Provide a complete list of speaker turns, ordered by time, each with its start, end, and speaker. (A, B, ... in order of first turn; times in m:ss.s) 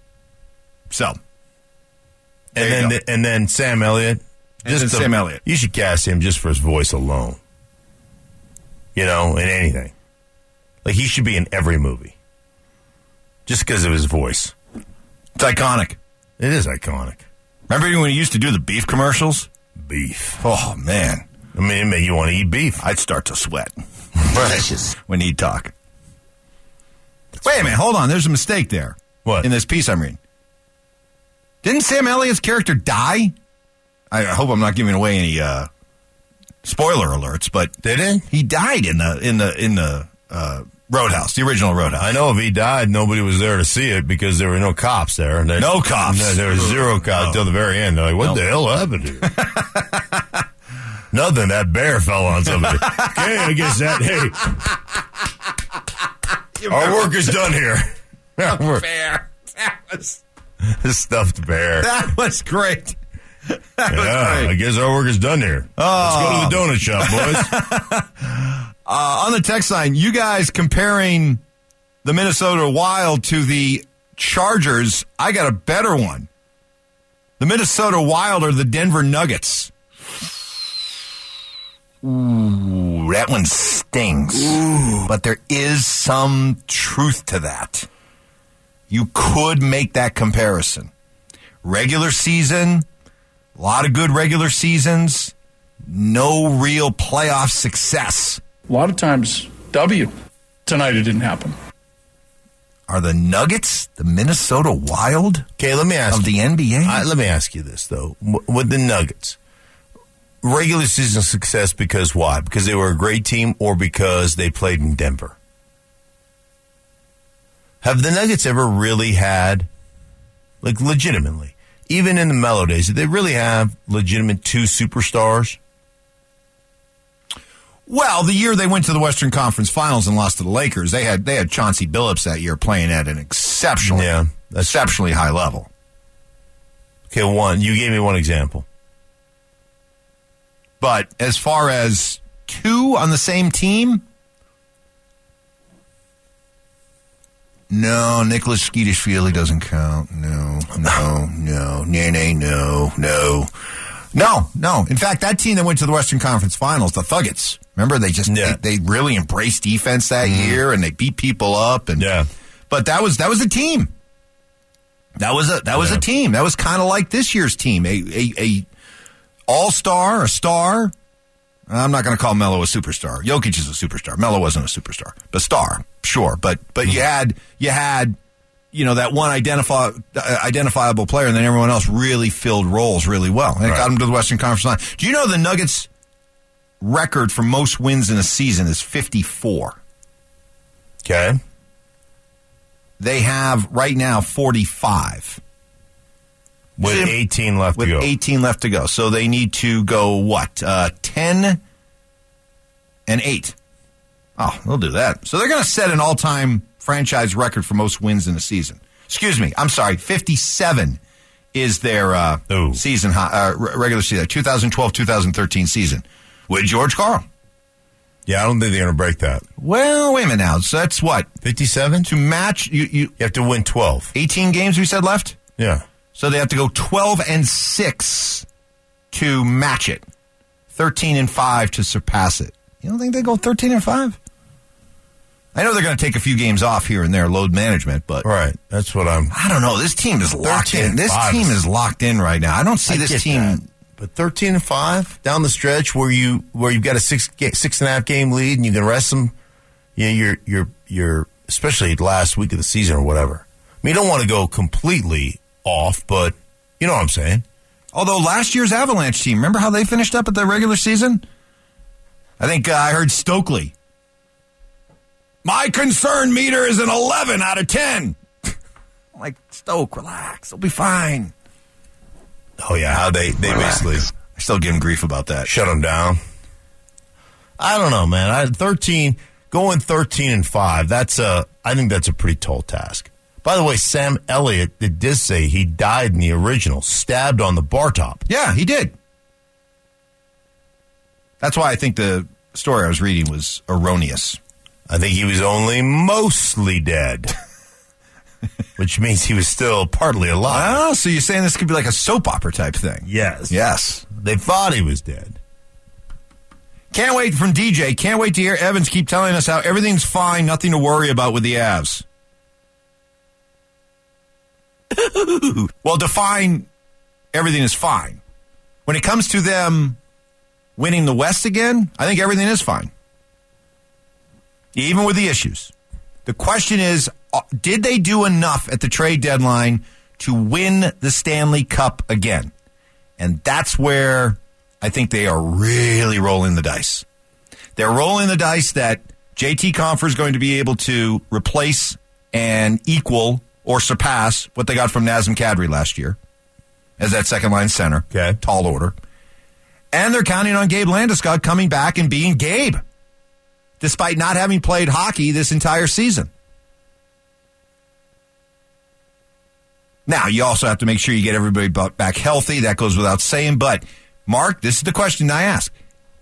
0:00.9-0:01.2 A
0:02.6-0:07.4 B
0:02.6-0:03.0 A
0:04.6-0:05.4 A
0:08.9-0:09.9 B
0:10.8-0:12.1 B
0:13.5-0:14.5 B
0:15.4-0:16.0 A
0:16.4-0:17.2 B
0:17.7-0:19.5 A
0:19.8-0:20.4 B
0:20.4-0:21.2 A
0:21.5-0:22.8 B
0:22.8-0:23.7 A
0:24.2-0:24.7 B
0:24.3-0:25.7 A
0:27.4-0:27.8 B
0:27.4-0:30.2 A
0:31.6-0:33.4 A
0:34.1-0:35.7 A
0:36.6-0:37.7 A
0:37.8-0:38.2 B
0:38.3-0:42.2 A
0:42.0-0:49.4 B
0:45.6-0:47.5 A
0:49.2-0:50.2 A
0:51.1-0:54.6 B
0:52.6-0:53.7 A
0:56.6-0:57.4 A
0:56.7-0:58.8 B
0:58.5-1:00.2 A
1:00.6-1:01.9 B
1:01.8-1:03.0 A
1:03.5-1:04.5 A
1:03.9-1:07.6 B
1:05.8-1:11.4 A
1:12.0-1:16.3 A
1:17.4-1:19.7 A
1:22.0-1:27.9 A
1:28.9-1:30.9 A
1:31.6-1:32.9 A
1:33.6-1:35.3 A
1:35.9-1:38.4 A
1:38.7-1:40.1 C
1:40.7-1:41.5 C
1:42.9-1:45.5 A
1:45.6-1:46.3 B
1:46.1-1:47.1 A
1:46.8-1:49.4 B
1:50.4-1:55.4 B
1:57.8-1:59.7 B
2:00.6-2:05.6 B
2:07.9-2:15.7 A
2:13.8-2:14.9 B
2:17.1-2:18.6 B
2:20.8-2:24.0 A
2:27.7-2:33.5 A
2:34.1-2:42.1 A
2:38.3-2:38.6 B
2:40.2-2:40.6 B
2:42.0-2:42.3 B
2:42.7-2:43.9 A
2:45.2-2:48.7 A
2:45.8-2:46.0 B
2:49.5-2:50.9 A
2:51.7-2:58.2 A
2:58.7-3:05.9 A
3:03.6-3:03.9 B
3:06.8-3:09.8 A
3:11.0-3:11.4 B
3:13.0-3:15.4 A
3:16.8-3:18.1 B
3:16.8-3:21.6 A
3:23.1-3:23.6 A
3:24.4-3:31.0 A
3:31.5-3:37.2 A
3:32.5-3:32.8 B
3:38.3-3:39.4 B
3:39.6-3:41.3 A
3:41.4-3:42.1 B
3:42.0-3:43.1 A
3:43.2-3:44.1 B
3:44.1-3:45.4 A
3:45.6-3:45.8 B
3:46.1-3:48.4 A
3:49.1-3:50.0 A
3:50.7-3:54.2 A
3:55.5-3:58.2 A
3:58.2-3:59.3 B
3:59.3-4:03.6 A
4:00.4-4:01.6 B
4:02.9-4:09.3 B
4:10.0-4:17.4 B
4:17.9-4:21.2 A
4:22.4-4:23.7 A
4:25.4-4:28.5 A
4:29.1-4:31.3 A
4:32.6-4:34.1 B
4:33.4-4:33.8 A
4:34.3-4:35.5 A
4:35.4-4:36.2 B
4:37.6-4:48.2 B
4:48.3-4:48.9 A
4:51.4-4:54.4 A
4:54.9-4:57.3 B
4:58.8-5:00.8 B
5:00.5-5:04.0 A
5:03.1-5:03.6 B
5:04.1-5:05.4 B
5:06.9-5:12.0 A
5:14.9-5:16.7 A
5:17.3-5:18.2 A
5:18.9-5:20.0 A
5:20.8-5:22.9 A
5:24.7-5:25.7 A
5:26.2-5:32.5 A
5:33.2-5:37.0 A
5:37.8-5:46.2 A
5:47.0-5:49.0 A
5:48.1-5:48.4 B
5:49.9-5:52.8 A
5:53.8-5:56.3 A
6:00.1-6:05.7 A